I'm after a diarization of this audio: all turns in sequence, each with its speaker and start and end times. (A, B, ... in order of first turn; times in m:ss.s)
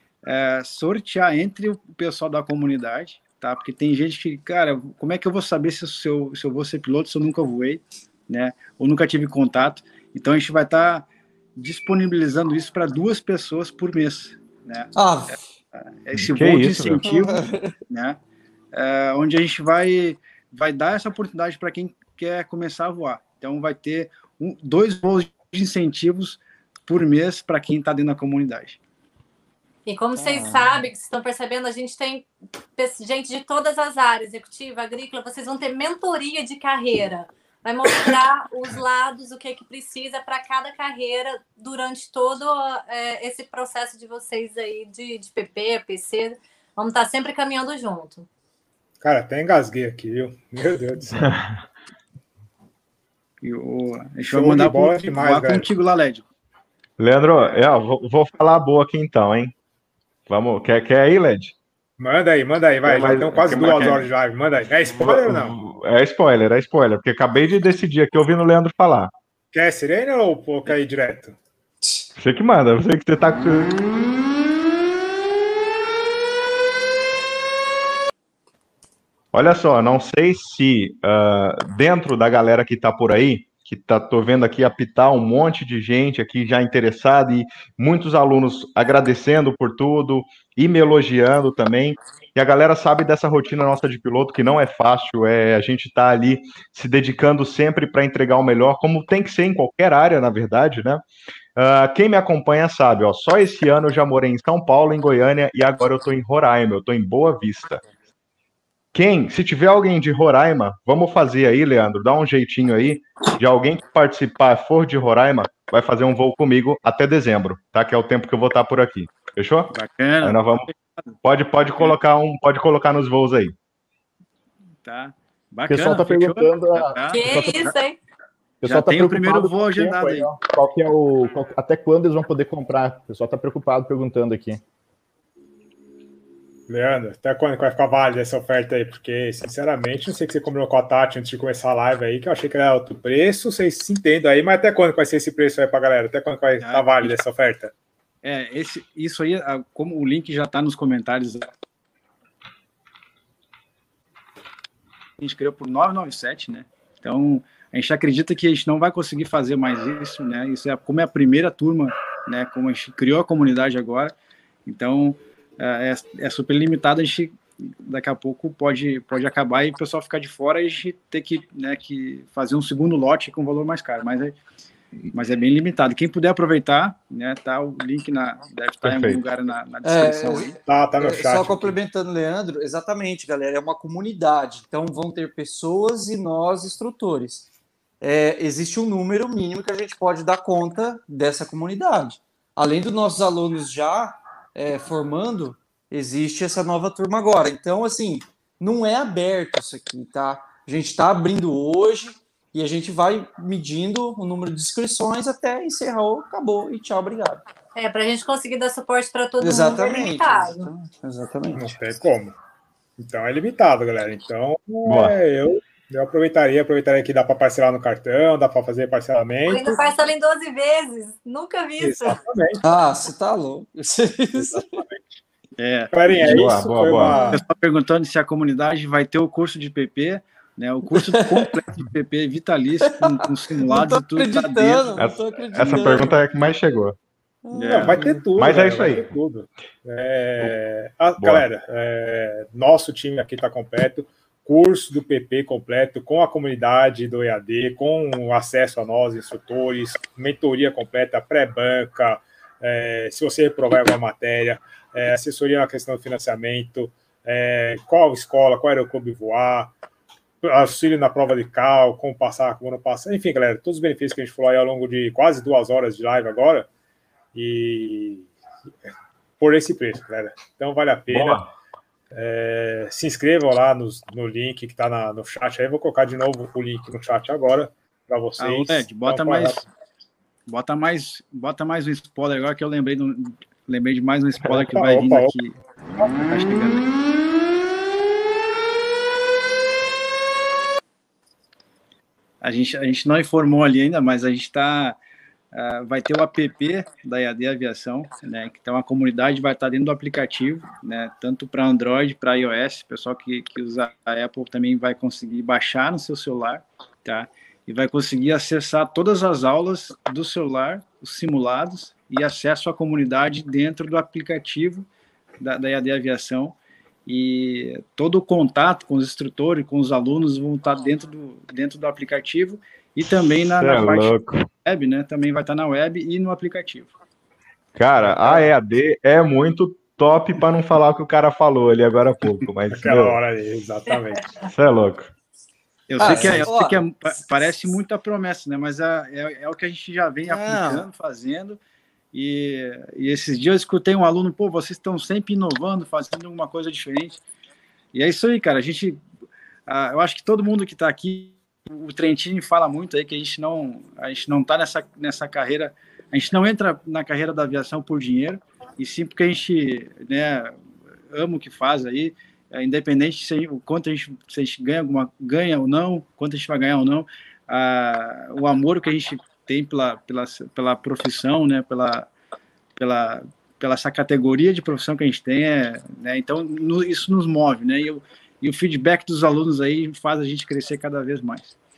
0:00.2-0:14.9 A
0:15.0-0:15.4 B
0:16.0-0:17.1 A
0:16.1-0:17.4 C
0:17.0-0:17.7 B
0:17.9-0:18.2 A
0:18.7-0:28.8 A
0:29.8-0:48.3 D
0:30.2-0:30.6 B
0:49.0-0:51.3 E
0:51.2-0:51.6 C
0:53.4-0:56.2 A
0:54.3-0:55.7 E
0:57.0-0:59.5 C
1:00.3-1:01.5 C
1:02.0-1:05.6 E
1:02.8-1:04.1 C
1:05.0-1:09.1 C
1:09.5-1:11.4 E
1:12.2-1:13.7 C
1:19.3-1:41.0 C
1:41.6-1:47.8 C
1:48.9-2:00.7 C
1:59.7-2:00.9 A
2:01.2-2:03.5 C
2:04.8-2:07.6 A
2:05.7-2:07.7 F
2:07.1-2:08.0 D
2:08.6-2:14.6 F
2:08.6-2:10.3 A
2:16.7-2:27.7 E
2:26.6-2:27.1 A
2:28.2-2:31.5 A
2:35.2-2:44.1 A
2:44.6-2:54.4 A
2:55.1-3:00.6 A
2:58.8-2:59.2 C
2:59.8-3:07.5 B
3:00.6-3:01.8 E
3:08.0-3:27.4 B
3:27.7-3:30.7 D
3:29.4-3:31.7 B
3:31.5-3:32.4 E
3:33.0-3:39.8 E
3:34.8-3:35.2 C
3:39.4-3:42.2 D
3:41.8-3:42.6 E
3:42.6-3:44.8 B
3:44.4-3:45.0 E
3:45.6-3:45.9 A
3:45.9-3:47.4 E
3:46.2-3:47.2 C
3:47.1-3:47.4 D
3:47.3-3:54.9 A
3:50.9-3:51.5 B
3:52.8-3:56.2 B
3:55.0-3:57.0 C
3:57.4-3:58.2 B
3:57.5-4:19.7 E
3:57.7-3:57.9 A
3:58.4-3:59.1 C
4:01.2-4:01.4 C
4:20.4-4:26.7 E
4:27.3-4:28.3 E
4:29.4-4:31.4 E
4:31.1-4:31.5 C
4:32.1-4:39.7 E
4:38.4-4:39.6 A
4:40.5-4:46.8 A
4:44.4-4:45.3 E
4:52.4-4:55.0 A
4:55.5-5:14.9 A
5:15.4-5:26.9 A
5:23.4-5:24.5 C
5:27.8-5:33.2 C
5:32.7-5:34.4 E
5:34.5-5:35.1 C
5:35.9-5:41.6 A
5:36.0-5:37.2 B
5:36.0-5:36.5 E
5:40.2-5:40.8 B
5:42.1-5:47.2 A
5:47.9-5:49.0 A
5:49.7-6:00.6 A
6:01.1-6:12.1 A
6:12.8-6:21.6 A